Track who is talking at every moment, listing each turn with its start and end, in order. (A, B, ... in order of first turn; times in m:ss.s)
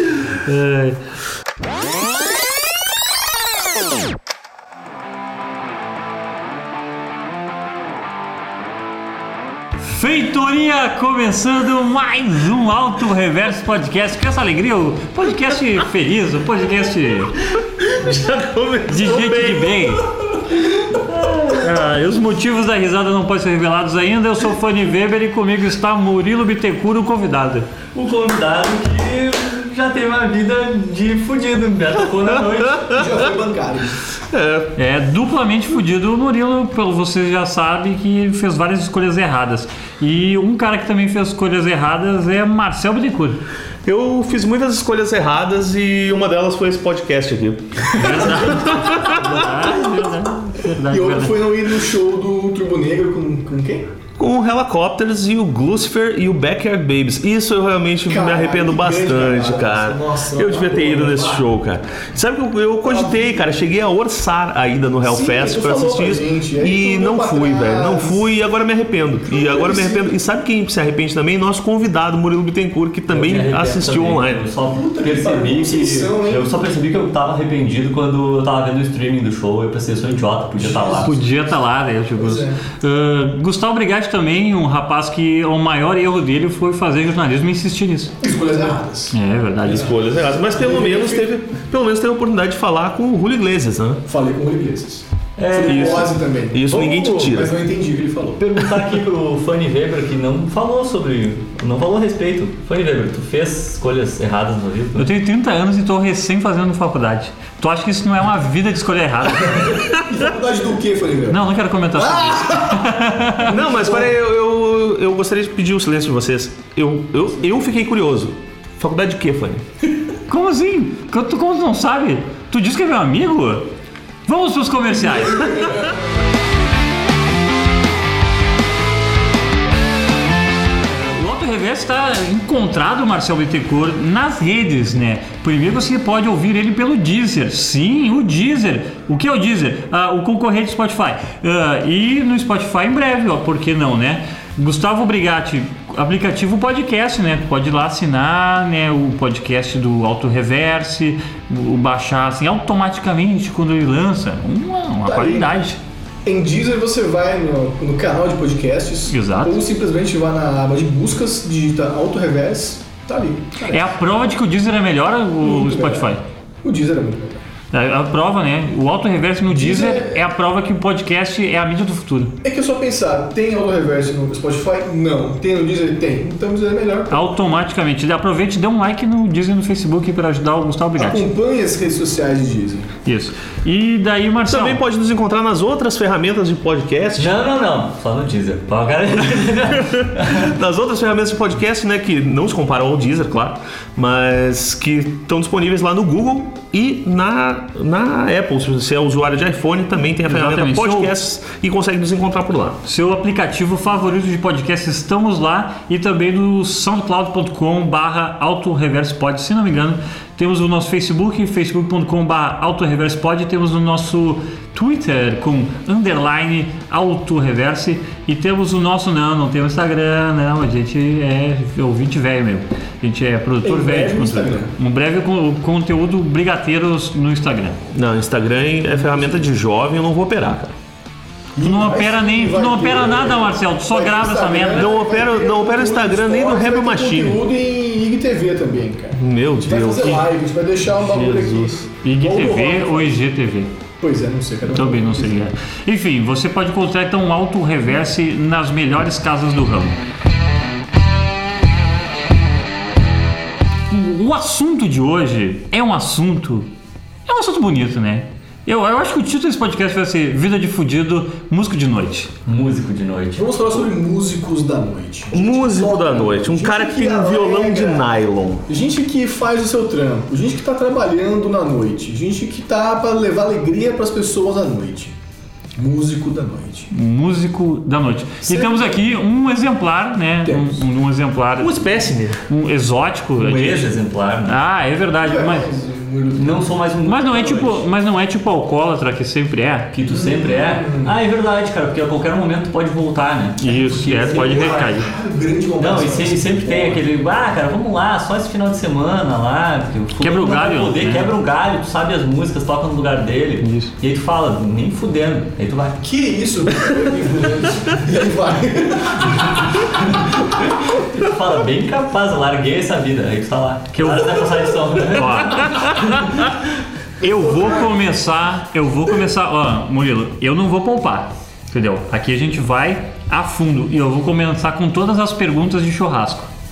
0:00.4-0:01.0 A
0:09.8-0:17.3 A
0:17.8-0:20.0 B
0:18.9-0:20.1 A
0:21.1-0:21.6 C
0:21.5-0:27.7 A
0:27.9-0:33.1 C
0:32.7-0:33.0 B
0:32.9-0:34.0 D
0:34.3-0:34.7 B
0:34.8-0:43.4 A
0:43.8-0:49.2 B
0:47.9-0:51.4 A
0:50.7-0:53.9 D
0:54.2-1:14.4 B
0:58.1-1:01.5 D
1:02.8-1:03.5 D
1:05.0-1:08.3 D
1:09.3-1:10.2 D
1:13.1-1:21.2 C
1:14.6-1:16.7 D
1:20.6-1:21.1 D
1:21.0-1:28.2 A
1:22.2-1:22.6 D
1:28.2-1:29.2 D
1:29.1-1:29.9 A
1:29.7-1:31.3 D
1:29.7-1:34.0 B
1:34.1-1:38.4 D
1:35.4-1:36.1 C
1:35.7-1:37.5 B
1:36.7-1:37.4 C
1:38.4-1:45.1 C
1:45.0-1:49.8 A
1:49.5-1:52.9 D
1:51.3-1:53.5 A
1:53.4-1:59.6 B
1:53.5-1:54.1 D
2:00.3-2:03.7 A
2:04.3-2:05.7 A
2:05.2-2:06.0 D
2:10.9-2:35.8 A
2:35.0-2:35.5 D
2:36.2-2:44.0 D
2:39.1-2:39.6 A
2:43.7-2:46.2 A
2:45.4-2:46.1 D
2:46.6-2:47.4 D
2:47.7-2:52.3 A
2:49.5-2:50.2 D
2:52.4-2:57.3 D
2:57.1-3:01.3 A
3:01.0-3:02.9 D
3:03.0-3:04.8 A
3:04.5-3:07.4 B
3:07.2-3:10.5 C
3:10.3-3:22.8 B
3:20.2-3:21.1 A
3:22.8-3:47.8 A
3:43.6-3:44.7 D
3:47.9-3:50.7 B
3:51.6-4:03.2 D
3:51.6-3:54.9 A
3:54.8-3:57.4 B
3:59.2-4:00.3 B
4:01.0-4:01.7 B
4:02.0-4:03.7 A
4:04.0-4:05.5 D
4:04.7-4:10.0 A
4:13.9-4:16.7 A
4:17.3-4:22.3 A
4:22.5-4:23.5 C
4:23.4-4:28.1 D
4:25.3-4:28.6 B
4:28.7-4:35.2 D
4:35.8-4:36.9 D
4:36.9-4:41.9 A
4:38.4-4:39.0 D
4:40.4-4:40.8 D
4:41.6-4:42.4 B
4:42.5-4:45.7 A
4:43.4-4:44.6 C
4:45.2-4:46.8 D
4:46.4-4:47.8 C
4:47.1-4:49.9 A
4:49.9-4:54.8 C
4:50.0-4:51.2 D
4:53.6-4:55.1 A
4:53.6-4:57.0 D
4:55.8-5:06.0 C
5:00.2-5:01.3 A
5:03.6-5:03.9 A
5:06.0-5:10.4 D
5:10.0-5:16.5 C
5:14.0-5:14.3 A
5:15.0-5:16.0 A
5:17.2-5:26.5 A